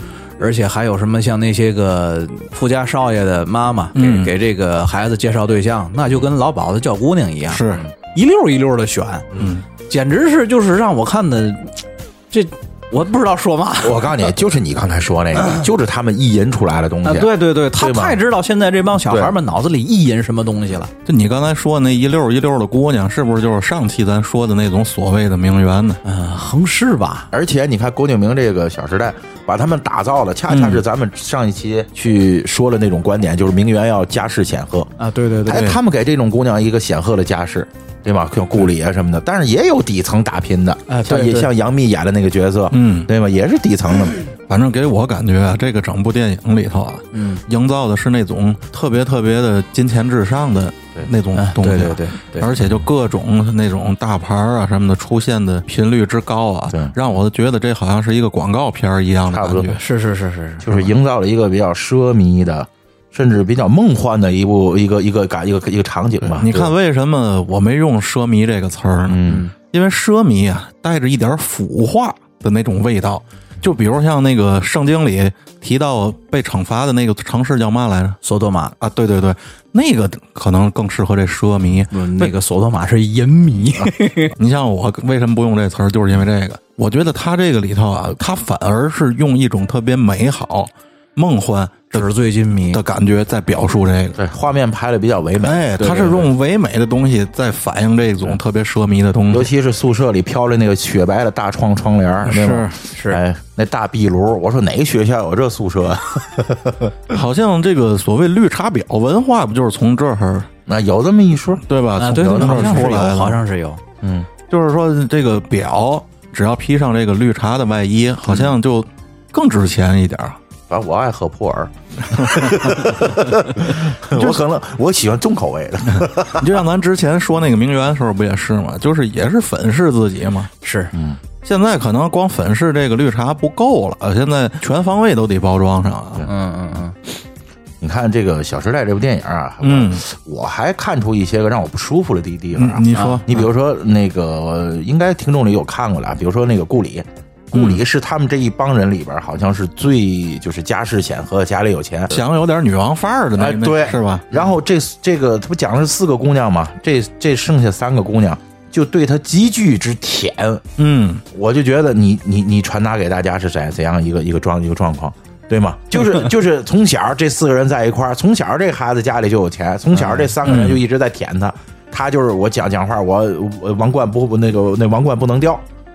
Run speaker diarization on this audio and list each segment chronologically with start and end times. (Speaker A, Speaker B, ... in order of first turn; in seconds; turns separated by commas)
Speaker A: 0.4-9.3, Speaker B: 4.0-4.3, Speaker B: 7.5-7.8, Speaker B: 9.4-9.6, Speaker A: 9.9-14.2, Speaker C: 13.8-18.2, Speaker A: 17.0-20.9, Speaker C: 19.1-19.3, Speaker B: 21.1-26.0, Speaker A: 26.0-27.3, Speaker C: 27.3-34.9, Speaker B: 30.5-30.8, Speaker A: 35.0-35.8, Speaker C: 35.5-44.2, Speaker B: 35.5-35.8, Speaker A: 40.9-41.5, Speaker B: 42.7-43.1, Speaker B: 44.5-59.8, Speaker A: 47.1-47.4, Speaker A: 51.4-52.5, Speaker C: 59.3-59.8, Speaker A: 59.7-60.8, Speaker C: 60.6-66.7, Speaker B: 66.3-78.2, Speaker C: 69.1-69.5, Speaker A: 69.3-69.5, Speaker A: 78.2-78.7, Speaker B: 78.8-82.3, Speaker A: 81.9-84.3, Speaker B: 84.4-92.1, Speaker A: 91.9-92.8, Speaker B: 92.7-94.2, Speaker C: 94.2-96.3, Speaker B: 95.4-99.5, Speaker C: 99.3-107.1, Speaker A: 102.3-103.2, Speaker B: 102.3-102.8, Speaker B: 107.1-110.5, Speaker C: 110.7-113.0, Speaker B: 111.7-113.4, Speaker A: 112.0-113.8, Speaker C: 114.0-114.3, Speaker B: 114.5-120.4, Speaker C: 118.3-118.5, Speaker C: 120.7-126.6, Speaker B: 122.2-122.9, Speaker B: 124.1-124.4, Speaker B: 126.3-130.5, Speaker A: 130.6-130.9, Speaker C: 130.9-131.2, Speaker B: 131.4-136.3, Speaker A: 136.2-136.9, Speaker C: 137.8-152.2, Speaker B: 139.6-140.0, Speaker B: 142.6-143.4, Speaker A: 142.9-143.2, Speaker B: 147.5-147.8, Speaker B: 152.1-154.3, Speaker C: 153.4-160.6, Speaker B: 160.8-161.2, Speaker C: 161.3-175.7, Speaker A: 169.9-170.3, Speaker B: 170.4-170.8